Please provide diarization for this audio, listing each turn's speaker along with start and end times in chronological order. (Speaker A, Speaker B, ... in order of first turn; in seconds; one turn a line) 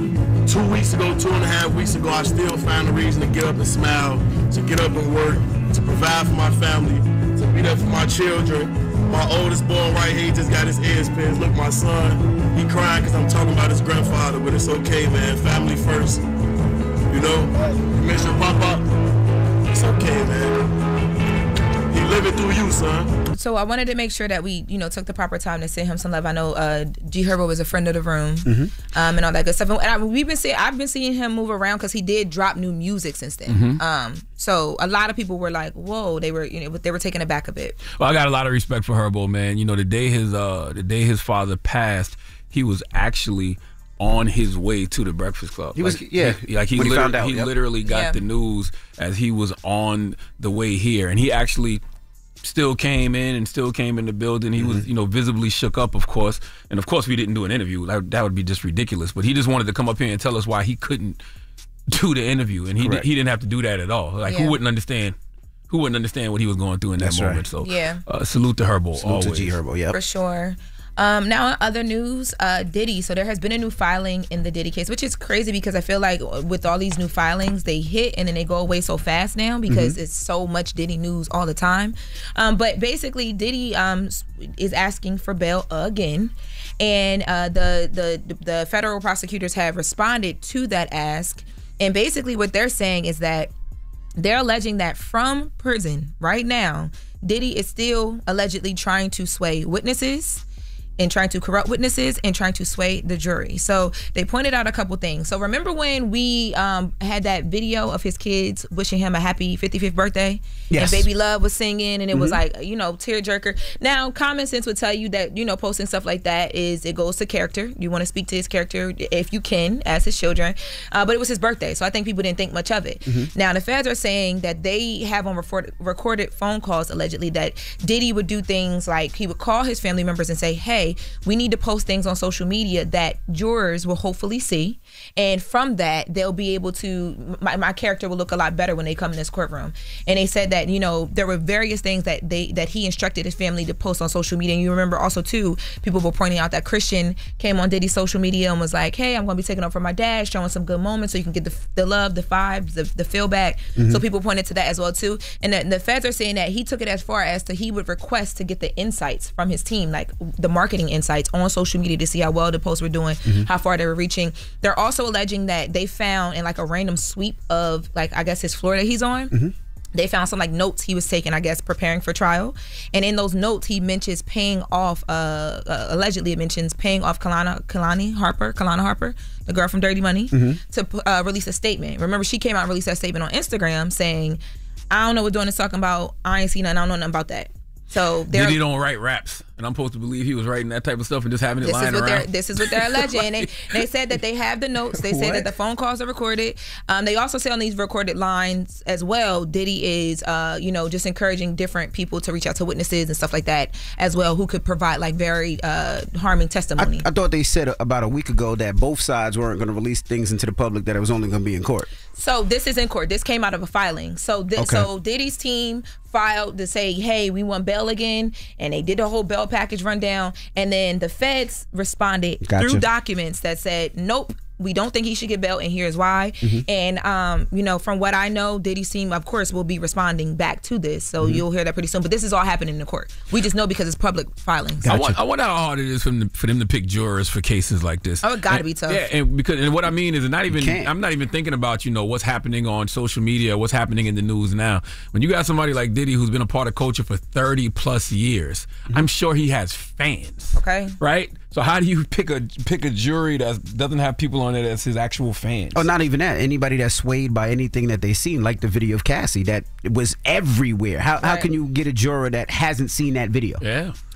Speaker A: 0.5-16.2
Speaker A: 17.1-18.9
Speaker A: 19.7-20.6
Speaker A: 21.9-23.1
Speaker B: 23.3-37.8
Speaker C: 28.4-28.7
Speaker D: 33.5-33.8
Speaker D: 38.0-51.8
Speaker C: 45.8-47.5
Speaker B: 47.9-48.2
Speaker D: 52.4-61.2
Speaker C: 54.6-54.9
Speaker D: 61.9-65.1
Speaker C: 62.8-63.1
Speaker B: 64.3-64.6
Speaker D: 65.7-69.5
Speaker C: 67.0-67.4
Speaker B: 67.6-68.0
Speaker C: 69.0-70.0
Speaker B: 69.9-93.5
Speaker C: 79.7-80.0
Speaker B: 94.2-100.4
Speaker B: 101.0-169.3
Speaker C: 110.7-111.1
Speaker C: 112.1-112.4
Speaker C: 153.8-154.0
Speaker B: 169.9-184.4
Speaker C: 180.3-180.6
Speaker B: 184.9-188.6
Speaker D: 188.3-193.7
Speaker B: 191.6-207.1
Speaker D: 195.0-195.5
Speaker C: 206.8-211.9
Speaker B: 212.1-234.9
Speaker C: 214.6-214.9
Speaker C: 222.4-222.8
Speaker C: 234.8-235.2
Speaker D: 234.8-255.9
Speaker B: 238.2-239.0
Speaker C: 240.5-240.9
Speaker B: 250.5-251.0
Speaker C: 255.7-263.6
Speaker B: 261.2-261.5
Speaker D: 263.6-263.9